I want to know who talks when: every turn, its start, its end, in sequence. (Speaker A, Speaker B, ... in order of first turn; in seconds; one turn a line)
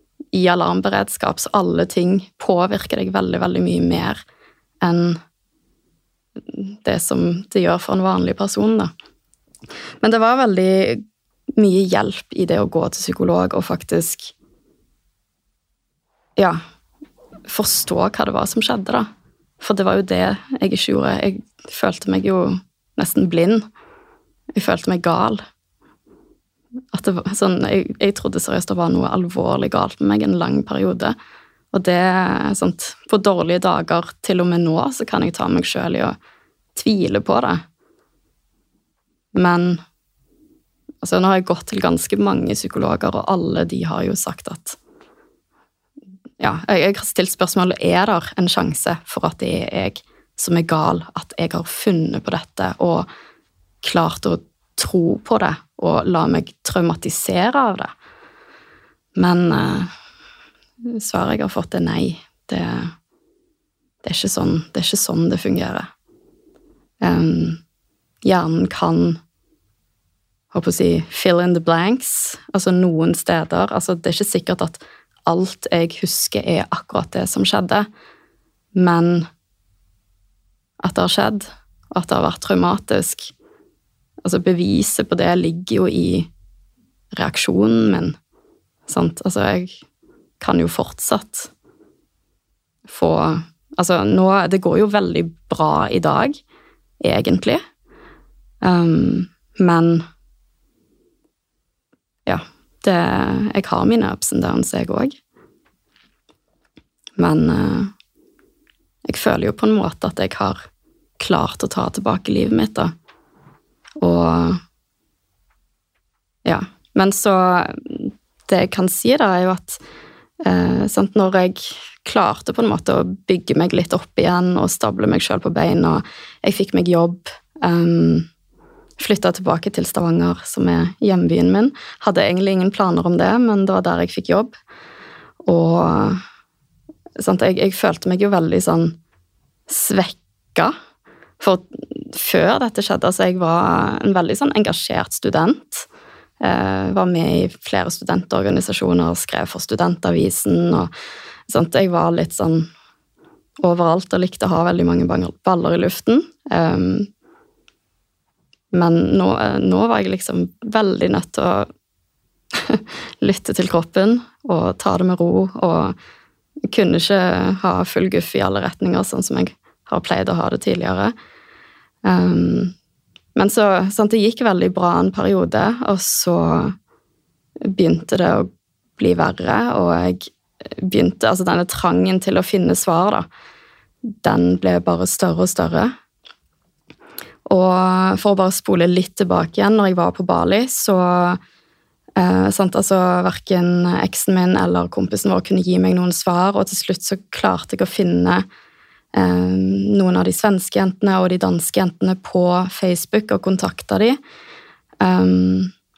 Speaker A: 0.3-4.2
Speaker A: 4.8-5.2
Speaker A: 6.5-8.9
Speaker A: 10.0-11.0
Speaker A: 11.6-14.3
Speaker A: 17.5-19.1
Speaker A: 19.6-23.6
Speaker A: 24.6-25.4
Speaker A: 26.9-31.1
Speaker A: 31.7-36.2
Speaker A: 36.8-37.6
Speaker A: 39.3-39.8
Speaker A: 41.0-44.8
Speaker A: 46.4-53.1
Speaker A: 53.8-57.9
Speaker A: 59.2-59.9
Speaker A: 60.9-62.9
Speaker A: 64.0-65.9
Speaker A: 67.0-67.6
Speaker A: 68.2-69.2
Speaker A: 70.5-77.9
Speaker A: 78.8-79.3
Speaker A: 80.8-83.3
Speaker A: 84.2-86.3
Speaker A: 87.2-88.2
Speaker A: 88.9-89.8
Speaker A: 90.4-91.5
Speaker A: 92.9-96.4
Speaker A: 97.0-97.6
Speaker A: 98.6-100.0
Speaker A: 102.3-105.2
Speaker A: 107.2-107.9
Speaker A: 109.1-110.7
Speaker A: 111.2-112.9
Speaker A: 114.0-114.6
Speaker A: 116.5-119.8
Speaker A: 120.4-128.3
Speaker A: 129.0-134.6
Speaker A: 135.4-136.2
Speaker A: 137.2-139.0
Speaker A: 139.7-140.7
Speaker A: 141.4-145.9
Speaker A: 146.4-150.9
Speaker A: 151.5-152.7
Speaker A: 153.6-157.1
Speaker A: 158.7-161.7
Speaker A: 162.6-165.9
Speaker A: 166.7-171.1
Speaker A: 172.1-172.7
Speaker A: 173.3-176.8
Speaker A: 177.6-183.3
Speaker A: 184.0-185.9
Speaker A: 187.5-191.4
Speaker A: 192.2-198.4
Speaker A: 199.2-204.2
Speaker A: 205.0-205.7